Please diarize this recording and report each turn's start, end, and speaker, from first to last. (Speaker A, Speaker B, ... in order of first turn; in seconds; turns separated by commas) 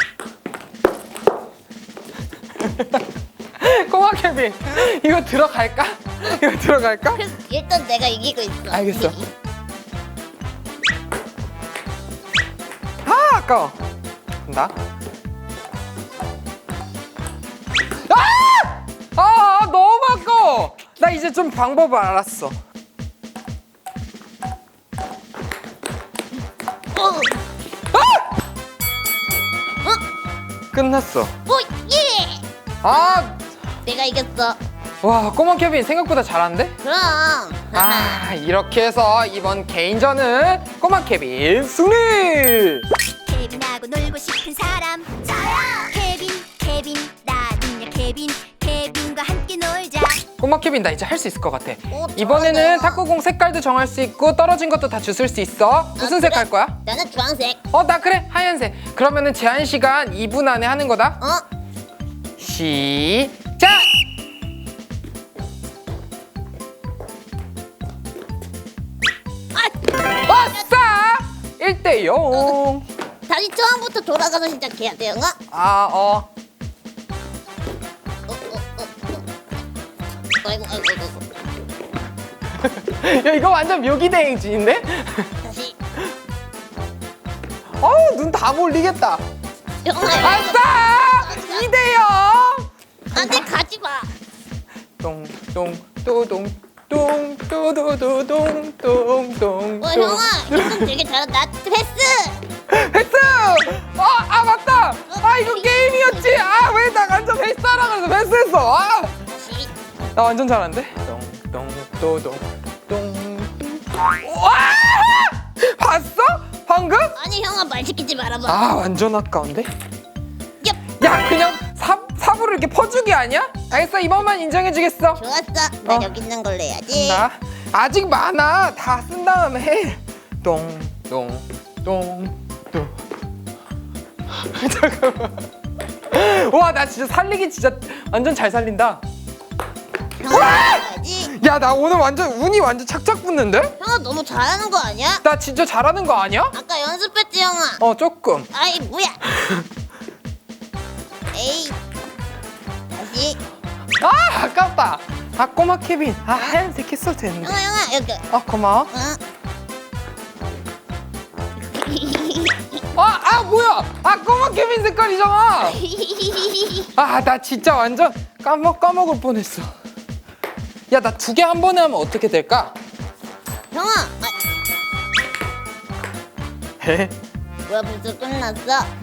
Speaker A: 2.6-3.0, Speaker A: 3.6-7.2, Speaker B: 7.1-9.3, Speaker A: 8.7-9.1, Speaker A: 13.0-13.8, Speaker A: 14.4-14.7, Speaker A: 18.1-22.6, Speaker B: 26.9-27.4, Speaker A: 27.9-28.3, Speaker A: 30.7-31.3, Speaker B: 31.4-32.9, Speaker A: 32.8-33.4, Speaker B: 33.8-34.6, Speaker A: 35.0-36.8, Speaker B: 36.8-38.3, Speaker A: 37.8-42.9, Speaker C: 43.2-50.2, Speaker A: 50.4-56.8, Speaker B: 51.9-53.0, Speaker B: 56.0-57.6, Speaker A: 57.7-61.2, Speaker A: 62.4-63.9, Speaker B: 69.5-69.9, Speaker A: 70.2-72.8, Speaker B: 73.3-75.3, Speaker A: 75.5-76.3, Speaker B: 78.3-79.2, Speaker B: 80.4-81.2, Speaker A: 82.6-85.3, Speaker B: 85.4-85.8, Speaker A: 87.8-89.2, Speaker B: 89.8-91.7, Speaker A: 90.2-93.5, Speaker B: 93.1-94.1, Speaker A: 95.0-100.9, Speaker B: 99.8-102.5, Speaker A: 102.7-109.1, Speaker B: 105.1-106.6, Speaker B: 109.3-109.7, Speaker A: 110.1-117.2, Speaker B: 117.1-118.6, Speaker A: 118.5-119.7, Speaker A: 121.0-125.2, Speaker B: 125.2-127.2, Speaker A: 126.9-132.9, Speaker A: 134.3-135.5, Speaker A: 136.1-139.0, Speaker B: 140.2-141.4, Speaker A: 140.3-143.8, Speaker B: 143.8-145.2, Speaker A: 145.2-146.5, Speaker B: 146.5-147.8, Speaker A: 147.8-148.5, Speaker B: 148.5-149.2, Speaker B: 151.3-151.8, Speaker B: 152.9-153.4, Speaker A: 154.0-157.6, Speaker B: 157.4-158.2, Speaker A: 158.3-158.9, Speaker B: 158.9-159.2, Speaker B: 161.6-162.8, Speaker A: 162.9-165.8, Speaker B: 165.6-166.9, Speaker A: 166.9-169.7, Speaker A: 170.9-172.7, Speaker B: 173.7-174.3, Speaker A: 176.8-177.1, Speaker B: 177.7-178.9